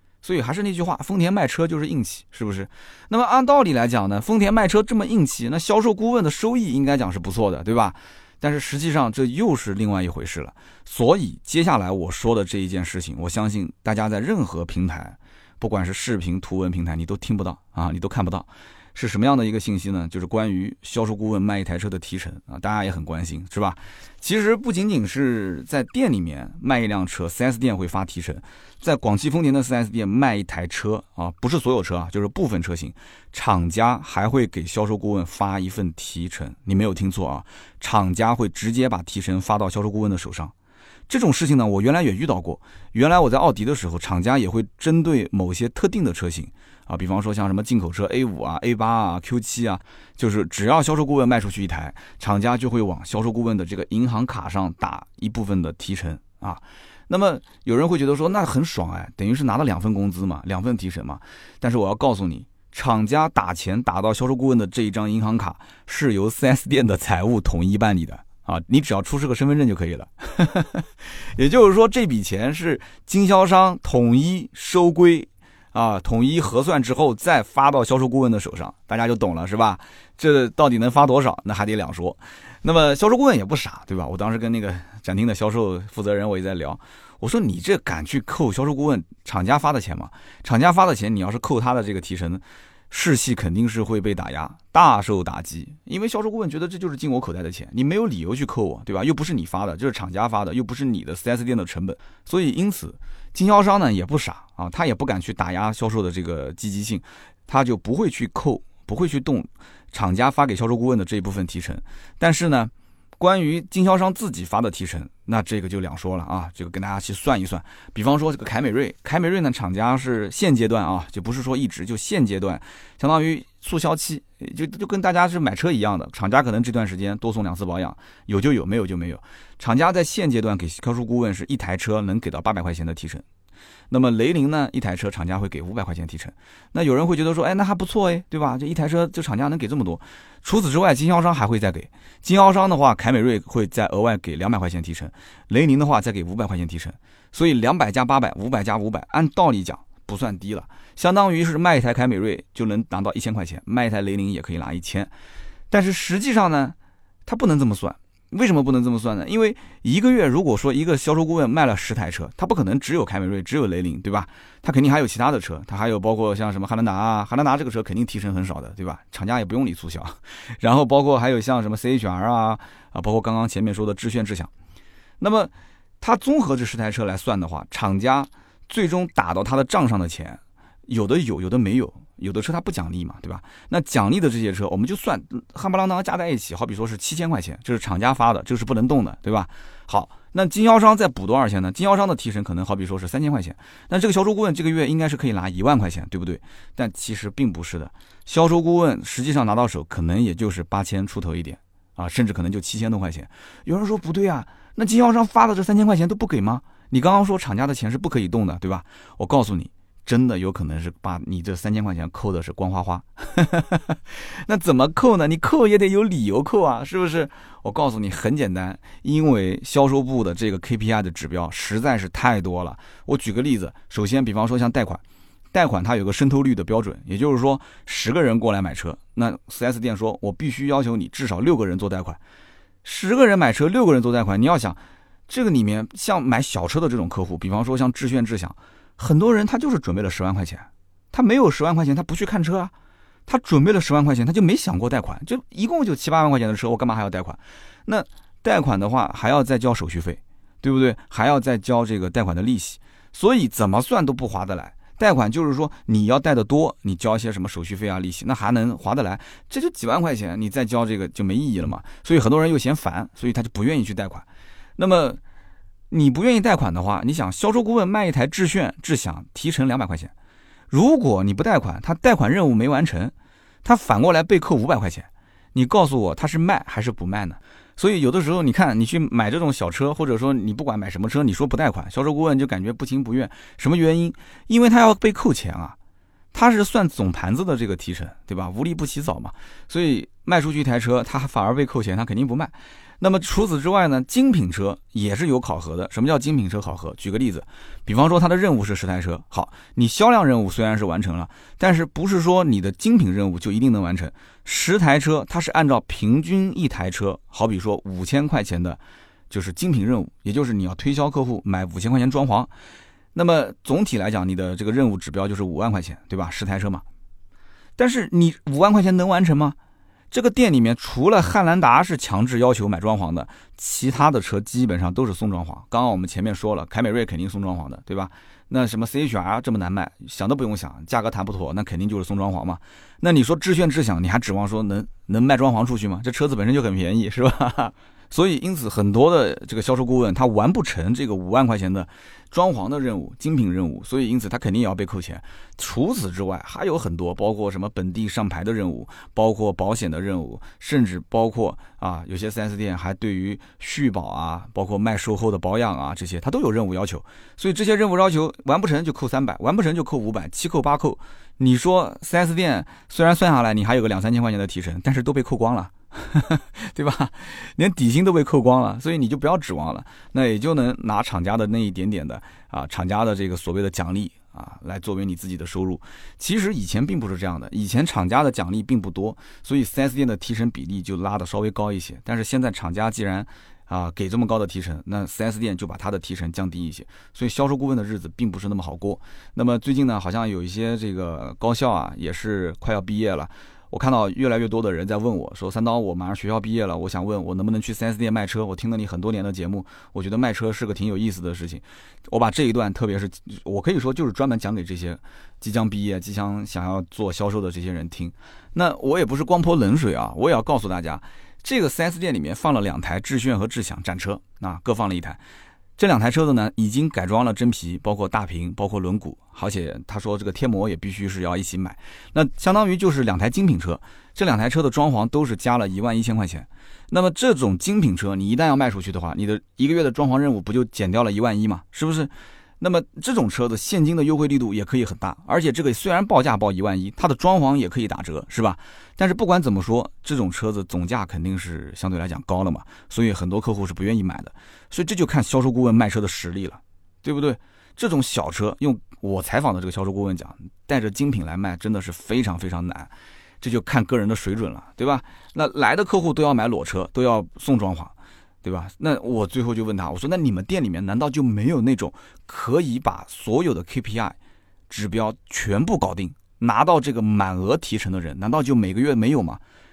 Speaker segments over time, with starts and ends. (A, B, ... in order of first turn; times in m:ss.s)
0:00.2-0:40.5 A
0:41.1-2:13.2 A
2:13.9-2:35.1 A
2:35.7-2:54.5 A
2:55.2-3:45.0 A
3:45.5-3:52.2 A
3:52.8-4:02.7 A
4:03.3-4:24.3 A
4:24.8-4:25.2 A
4:25.9-4:30.1 A
4:30.7-4:33.1 A
4:33.6-4:45.8 A
4:46.3-5:12.5 A
5:13.2-5:16.8 A
5:17.8-5:19.6 A
5:20.1-6:55.2 A
6:55.8-7:44.2 A
7:44.7-7:49.4 A